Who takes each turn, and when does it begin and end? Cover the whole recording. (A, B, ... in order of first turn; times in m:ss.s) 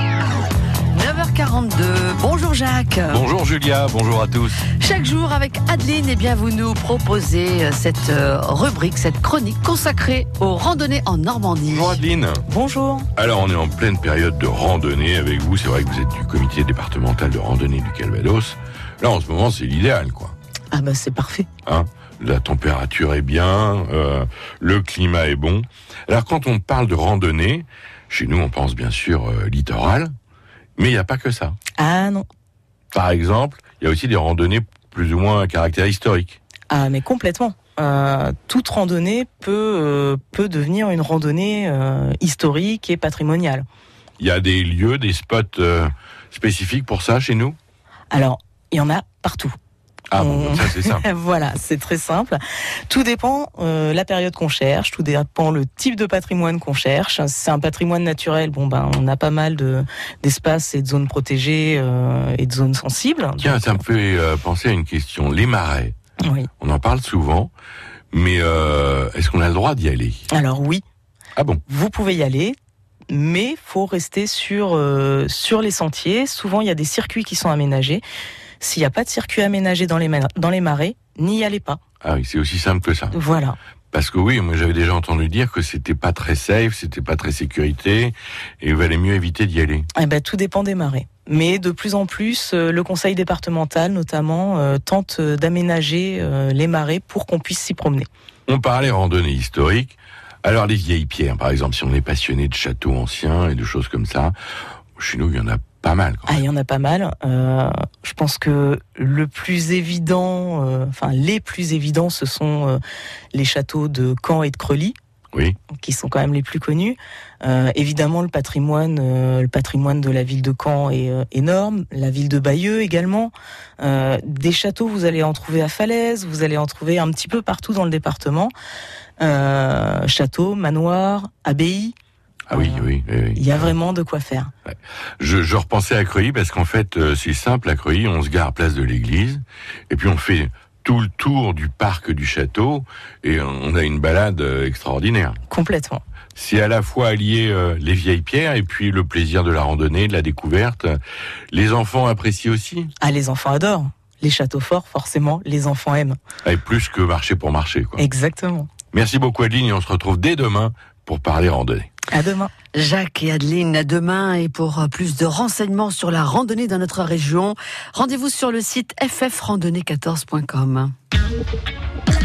0:00.9-0:03.2 A
0:03.1-0:04.7 B
0:04.8-0:12.0 A
0:11.7-0:12.4 B
0:12.5-0:13.1 C
0:13.2-0:20.4 B
0:20.7-0:21.5 C
0:21.6-0:30.1 B
0:30.8-0:31.6 B
0:31.8-0:32.3 C
0:32.9-0:36.4 B
0:36.7-0:43.6 C
0:44.2-0:47.6 B
0:48.1-0:49.6 C
0:50.1-0:51.0 B
0:50.2-1:03.7 C
1:03.4-1:05.9 B
1:06.6-1:07.5 B
1:08.1-1:10.3 B
1:10.3-1:10.8 C
1:11.4-1:11.6 B
1:11.7-1:12.6 C
1:13.1-1:18.0 C
1:18.6-1:21.8 C
1:22.0-1:23.2 B
1:23.1-1:23.6 C
1:23.9-1:29.9 B
1:30.0-1:38.1 C
1:38.5-1:44.4 B
1:45.0-1:46.4 B
1:46.3-1:52.8 C
1:53.3-1:55.0 C
1:55.7-2:08.5 C
2:09.2-2:11.9 C
2:12.5-2:13.7 B
2:12.5-2:14.5 C
2:14.7-2:25.4 B
2:25.5-2:26.0 C
2:26.4-2:31.0 B
2:31.5-2:32.9 B
2:33.0-2:36.2 C
2:36.4-2:38.0 B
2:38.0-2:38.7 C
2:38.9-2:41.9 B
2:42.1-2:42.5 C
2:42.7-2:50.9 A